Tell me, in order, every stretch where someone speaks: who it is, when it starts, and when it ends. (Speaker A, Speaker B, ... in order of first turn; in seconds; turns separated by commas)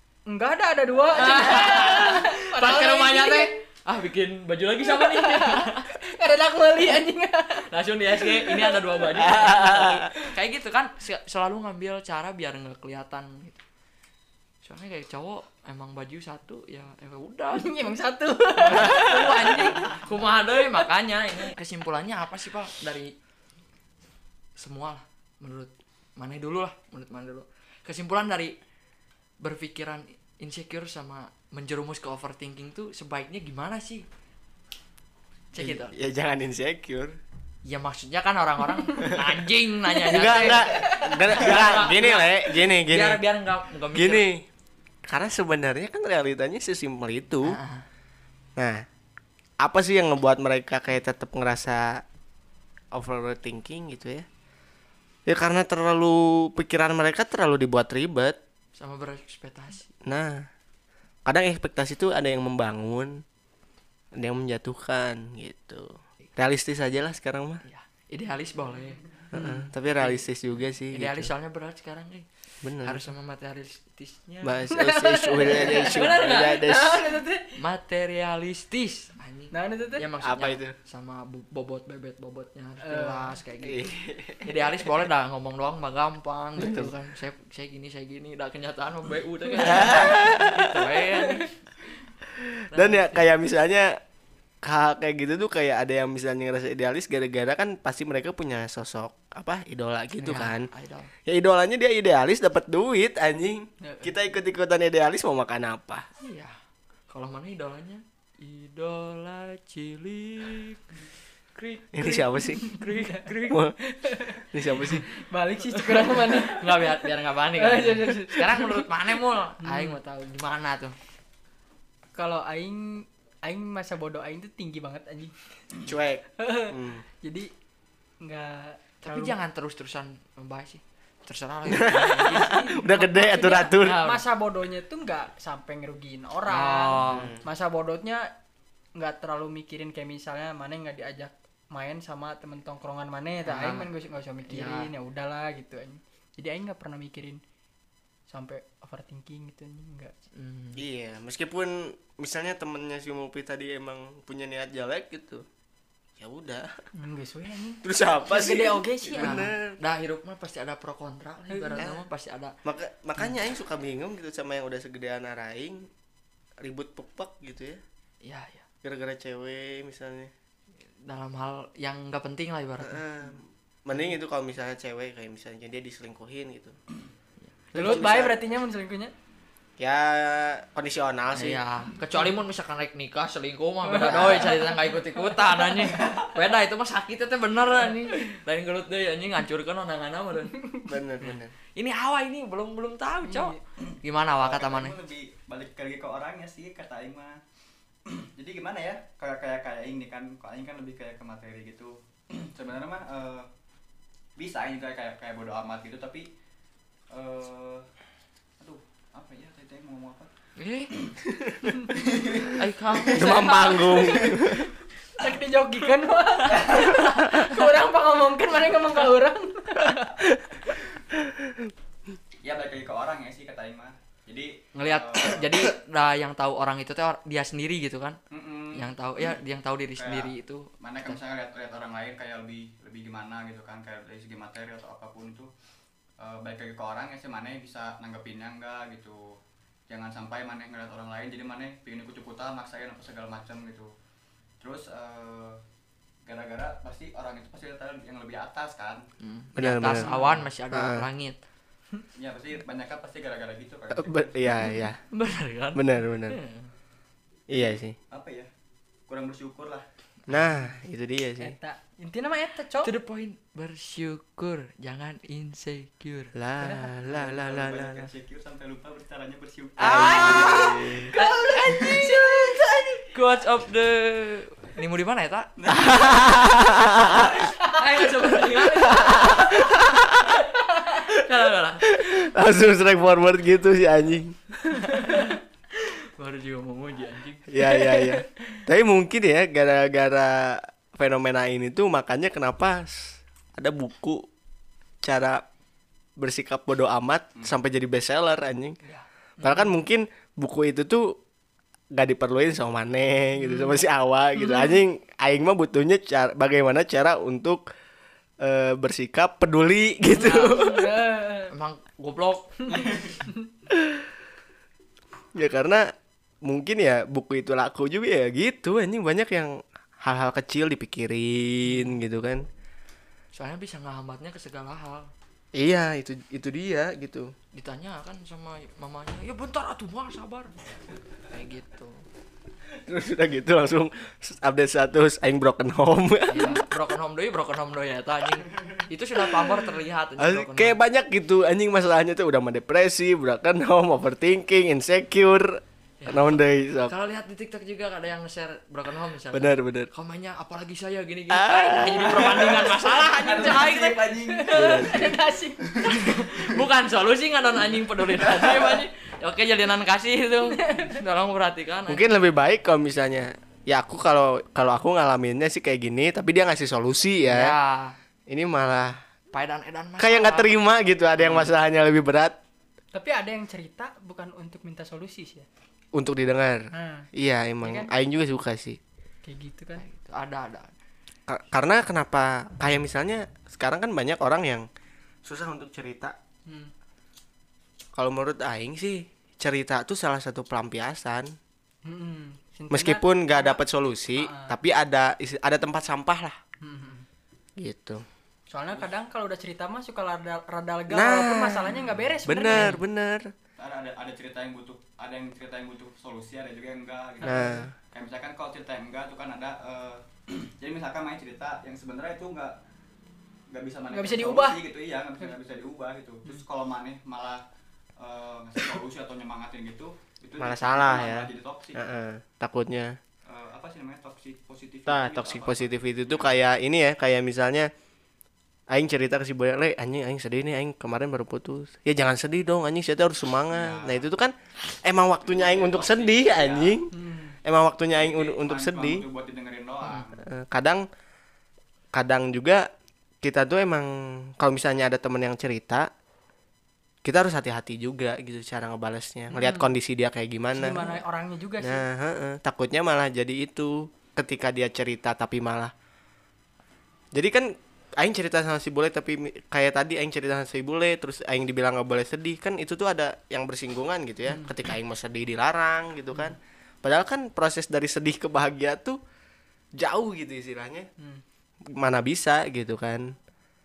Speaker A: 0.3-3.5, Speaker B: 1.1-5.9, Speaker A: 4.8-9.5, Speaker B: 7.6-13.6, Speaker C: 9.2-10.1, Speaker B: 14.6-17.9, Speaker A: 17.5-20.0, Speaker B: 18.6-23.1, Speaker B: 24.6-28.6, Speaker B: 29.4-34.0, Speaker B: 35.5-35.9, Speaker C: 35.5-37.2, Speaker B: 37.6-44.2, Speaker C: 40.1-43.2, Speaker A: 40.2-41.2, Speaker C: 43.9-44.5, Speaker C: 45.0-47.6, Speaker B: 47.4-47.9, Speaker C: 48.6-48.8, Speaker C: 49.6-52.0, Speaker C: 52.9-54.2, Speaker C: 55.3-58.4, Speaker B: 58.8-59.9, Speaker C: 60.0-60.5, Speaker C: 61.2-63.2, Speaker C: 64.1-67.6, Speaker B: 67.6-69.0, Speaker C: 69.3-71.3, Speaker A: 69.3-69.7, Speaker B: 69.9-70.2, Speaker B: 70.9-74.6, Speaker C: 72.6-73.0, Speaker C: 74.4-77.1, Speaker A: 74.7-77.5, Speaker B: 75.4-76.6, Speaker B: 77.5-83.9, Speaker A: 79.5-80.0, Speaker C: 80.2-80.8, Speaker A: 82.8-83.3, Speaker C: 83.6-84.7, Speaker B: 84.4-91.6, Speaker C: 86.6-86.9, Speaker C: 89.6-90.8, Speaker A: 89.9-90.2, Speaker A: 91.1-91.4, Speaker C: 92.3-94.0, Speaker B: 92.7-93.2, Speaker C: 94.6-100.7, Speaker B: 100.2-101.1, Speaker C: 101.2-106.0, Speaker A: 103.8-104.2, Speaker B: 106.2-106.5, Speaker B: 107.1-111.0, Speaker B: 111.5-113.6, Speaker C: 111.9-112.7, Speaker A: 112.6-113.3, Speaker C: 113.5-113.8, Speaker A: 114.0-117.0, Speaker C: 114.5-115.0, Speaker B: 115.6-121.0, Speaker A: 117.5-118.9, Speaker A: 119.6-120.0, Speaker A: 122.1-125.3, Speaker C: 125.8-127.0, Speaker A: 126.4-127.5, Speaker A: 128.2-129.3, Speaker B: 129.0-134.2, Speaker C: 131.7-134.0, Speaker A: 132.3-138.3, Speaker B: 136.5-137.3, Speaker C: 137.1-137.4, Speaker A: 138.9-147.4, Speaker B: 143.4-143.9, Speaker B: 144.5-144.9, Speaker A: 148.3-150.1, Speaker B: 150.3-150.8, Speaker C: 150.8-155.4, Speaker C: 156.2-156.7, Speaker A: 156.9-159.5, Speaker C: 157.8-159.8, Speaker B: 159.1-162.6, Speaker A: 161.5-161.9, Speaker C: 162.6-165.9, Speaker C: 166.6-167.8, Speaker B: 168.2-168.6, Speaker C: 168.8-170.3, Speaker B: 171.0-173.0, Speaker C: 172.8-176.8, Speaker B: 177.4-178.0, Speaker C: 177.7-178.4, Speaker A: 177.7-179.1, Speaker C: 179.8-181.6, Speaker B: 181.3-190.6, Speaker A: 183.9-186.1, Speaker C: 184.0-184.6, Speaker C: 190.8-191.5, Speaker B: 191.2-194.9, Speaker A: 193.2-193.6, Speaker D: 193.8-197.4, Speaker D: 198.0-203.5, Speaker D: 204.4-206.3, Speaker D: 207.1-207.9, Speaker D: 208.6-210.3, Speaker B: 210.6-210.9, Speaker C: 211.3-211.6, Speaker D: 211.8-213.3, Speaker B: 212.5-214.2, Speaker C: 213.1-214.7, Speaker D: 213.9-214.3, Speaker A: 215.2-220.1, Speaker D: 216.5-216.9, Speaker B: 216.8-217.6, Speaker D: 222.4-225.5, Speaker B: 224.8-228.2, Speaker D: 228.3-228.9, Speaker B: 228.7-231.2, Speaker D: 230.0-235.5, Speaker D: 236.2-239.4, Speaker D: 239.9-243.9, Speaker D: 244.6-245.6, Speaker D: 246.2-249.0, Speaker B: 249.2-251.4, Speaker C: 249.6-250.2, Speaker A: 250.0-250.3, Speaker C: 250.7-251.0, Speaker D: 252.1-254.5, Speaker C: 253.9-255.0, Speaker B: 255.1-256.7, Speaker C: 255.7-256.4, Speaker C: 257.5-257.9, Speaker D: 257.5-258.5, Speaker D: 259.1-259.8, Speaker C: 260.3-261.6, Speaker B: 260.3-260.6, Speaker A: 261.4-262.9, Speaker B: 262.8-266.3, Speaker C: 266.3-268.1, Speaker A: 266.6-266.9, Speaker D: 267.1-270.7, Speaker A: 269.8-273.1, Speaker B: 269.8-275.5, Speaker C: 269.8-271.1, Speaker D: 271.7-272.1, Speaker D: 275.6-276.4, Speaker C: 275.7-277.4, Speaker B: 277.6-282.0, Speaker A: 278.3-279.6, Speaker C: 278.7-280.3, Speaker C: 281.9-284.4, Speaker B: 284.7-287.6, Speaker C: 287.5-294.3, Speaker A: 287.6-288.2, Speaker C: 295.0-295.4, Speaker C: 296.2-298.8, Speaker A: 299.4-299.7, Speaker C: 299.4-301.2, Speaker C: 301.9-307.6, Speaker A: 303.4-303.8, Speaker A: 304.4-304.8, Speaker C: 308.4-311.0, Speaker B: 310.1-310.8, Speaker A: 310.4-311.5, Speaker B: 311.5-313.1, Speaker A: 312.7-313.5, Speaker D: 312.7-313.1, Speaker C: 313.7-314.1, Speaker C: 315.3-315.9, Speaker C: 316.4-322.4, Speaker B: 321.6-321.9, Speaker B: 323.3-325.1, Speaker C: 325.5-327.3, Speaker B: 327.5-330.5, Speaker B: 331.3-332.0, Speaker C: 332.9-336.6, Speaker B: 336.3-340.8, Speaker C: 340.2-346.9, Speaker B: 346.0-354.1, Speaker C: 349.3-349.9, Speaker C: 351.3-352.3, Speaker D: 351.9-355.1, Speaker A: 354.3-356.0, Speaker C: 354.5-355.2, Speaker B: 355.8-362.1, Speaker D: 358.3-358.8, Speaker A: 360.6-360.9, Speaker C: 361.9-367.5, Speaker B: 367.3-367.9, Speaker C: 368.3-369.0, Speaker B: 369.3-370.6, Speaker C: 370.0-372.4, Speaker B: 371.2-371.5, Speaker A: 372.9-375.5, Speaker C: 375.9-378.8, Speaker A: 376.7-377.1, Speaker A: 377.6-377.9, Speaker A: 379.2-379.8, Speaker B: 379.8-380.7, Speaker C: 381.3-384.7, Speaker C: 385.2-386.1, Speaker A: 386.5-386.7, Speaker C: 387.9-391.3, Speaker A: 391.8-393.6, Speaker C: 392.7-396.4, Speaker A: 394.1-394.5, Speaker A: 396.6-397.1, Speaker C: 397.6-398.0, Speaker A: 398.5-402.8, Speaker C: 400.9-403.3, Speaker D: 403.6-412.6, Speaker A: 407.2-407.6, Speaker C: 407.2-407.7, Speaker D: 413.5-417.4, Speaker A: 413.9-414.6, Speaker D: 418.0-421.8, Speaker C: 420.4-423.0, Speaker D: 423.3-426.4, Speaker C: 424.9-427.7, Speaker C: 428.7-436.9, Speaker D: 433.5-434.0, Speaker D: 435.2-436.8, Speaker A: 436.9-437.4, Speaker C: 437.4-439.0, Speaker D: 438.0-440.2, Speaker C: 440.2-440.8, Speaker C: 441.9-442.6, Speaker C: 443.2-445.9, Speaker C: 447.0-451.0, Speaker A: 449.3-449.7, Speaker A: 450.5-451.8, Speaker C: 451.6-455.7, Speaker C: 457.1-469.0, Speaker A: 464.3-464.5, Speaker C: 469.8-470.9, Speaker C: 471.7-473.1